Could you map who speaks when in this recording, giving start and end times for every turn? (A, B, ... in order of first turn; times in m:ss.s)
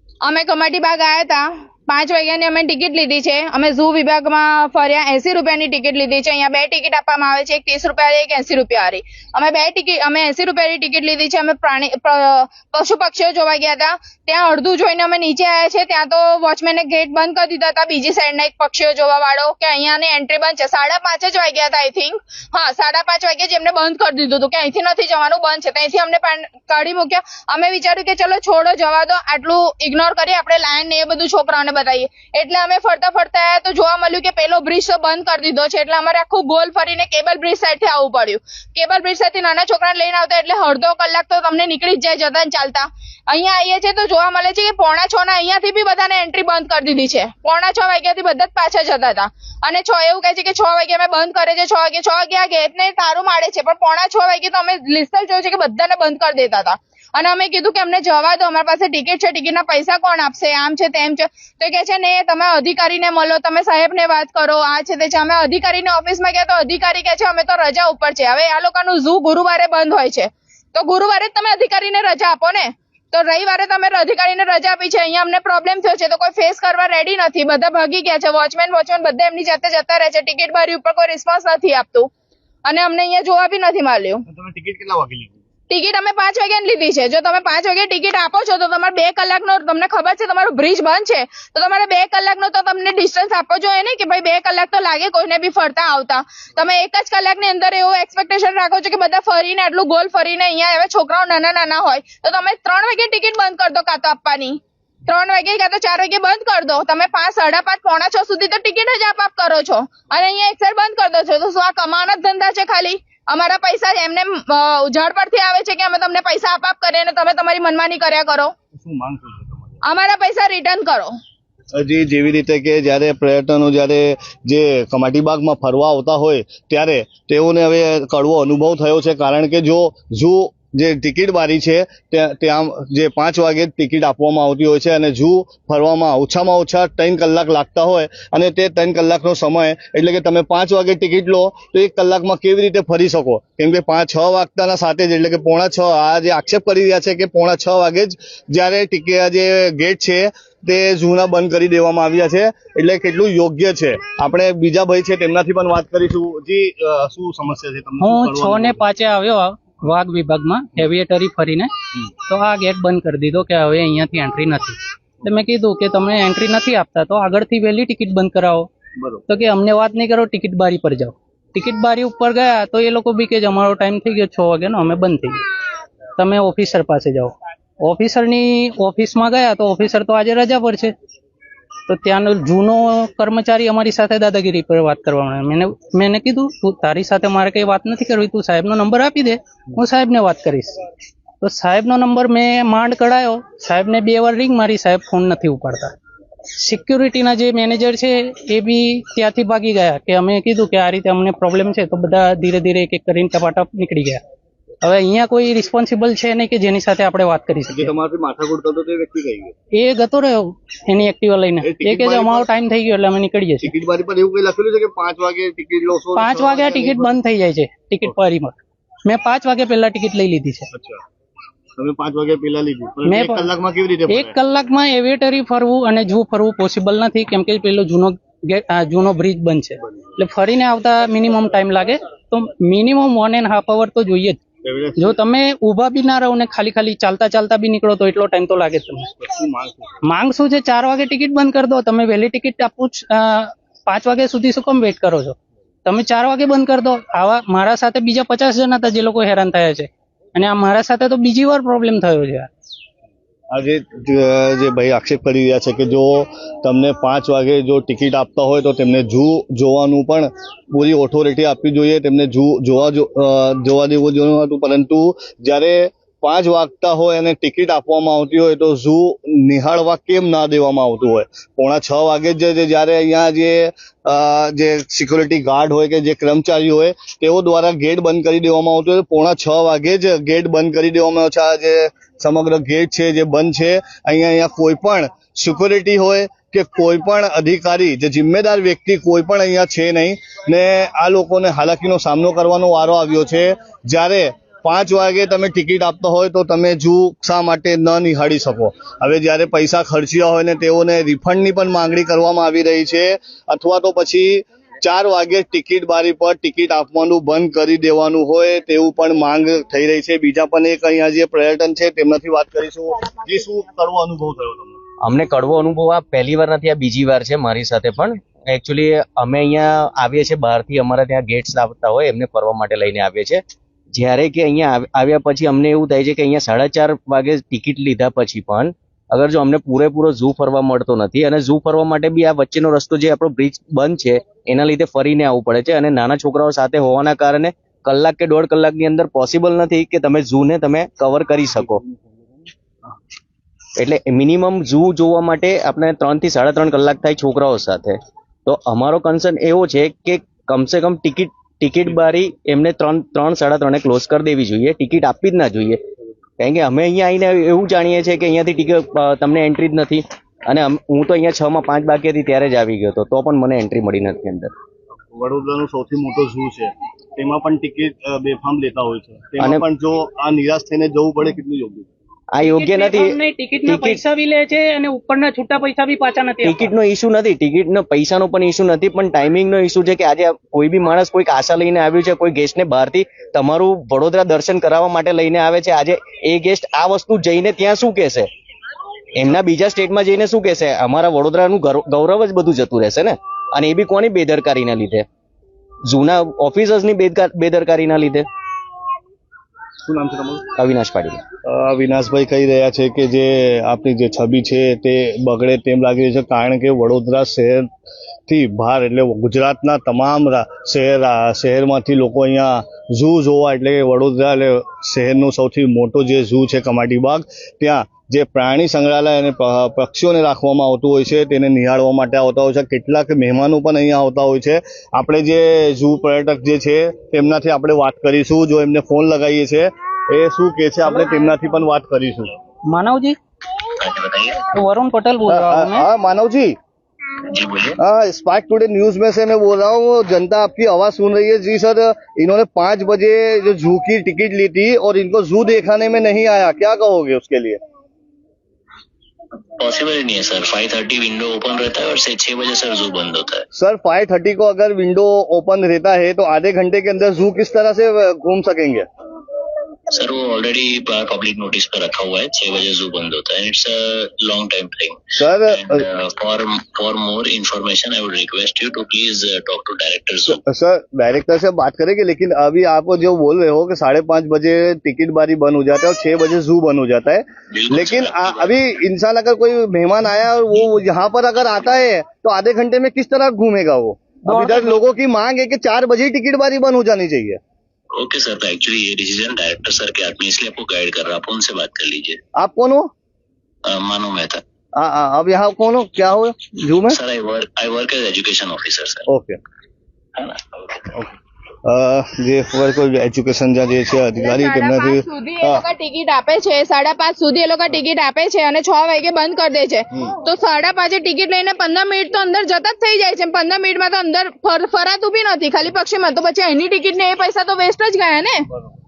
0:00.2-1:22.1 A
1:22.7-1:24.2 A
1:24.3-1:25.4 B
1:25.7-1:58.5 A
1:58.7-1:59.8 B
1:59.8-2:01.1 A
2:01.8-2:38.8 B
2:38.0-2:48.7 C
2:49.0-2:49.2 B
2:49.3-2:55.4 C
2:56.2-3:00.9 C
3:01.9-3:10.8 C
3:11.4-3:15.9 C
3:16.6-3:24.2 C
3:24.8-3:27.9 C
3:27.7-3:29.6 B
3:29.8-3:33.7 C
3:31.6-3:32.5 B
3:33.6-3:37.2 B
3:36.2-3:40.7 C
3:40.7-3:41.0 B
3:41.8-3:44.4 B
3:43.0-3:43.5 C
3:44.1-3:54.4 C
3:49.8-3:50.2 B
3:54.6-3:55.2 B
3:55.0-3:59.1 C
3:59.2-4:00.0 B
4:00.1-4:12.5 C
4:13.5-5:14.8 B
5:15.0-5:23.4 D
5:23.9-5:41.8 D
5:43.8-5:55.8 D
5:56.4-6:04.5 D
6:05.1-6:11.9 B
6:09.4-6:09.6 D
6:12.3-6:14.0 D
6:12.4-6:16.7 C
6:16.4-6:28.3 D
6:29.2-6:35.1 D
6:35.9-6:38.3 D
6:39.9-6:40.5 B
6:40.6-6:41.2 D
6:41.5-6:47.7 B
6:48.3-7:12.4 B
7:12.7-7:13.2 C
7:13.8-7:14.4 E
7:14.5-7:15.9 C
7:15.3-7:16.5 B
7:17.3-7:17.8 E
7:17.8-7:27.6 B
7:29.6-7:33.4 E
7:33.5-7:38.9 B
7:39.9-7:50.4 E
7:45.2-7:45.8 B
7:50.3-8:07.4 B
7:57.5-7:58.5 E
8:04.3-8:04.8 C
8:08.0-8:12.2 E
8:12.4-8:12.9 B
8:13.6-8:14.4 E
8:14.8-8:17.0 B
8:16.9-8:19.0 E
8:19.1-8:19.4 B
8:20.2-8:20.8 E
8:21.6-8:25.6 B
8:24.2-8:38.5 A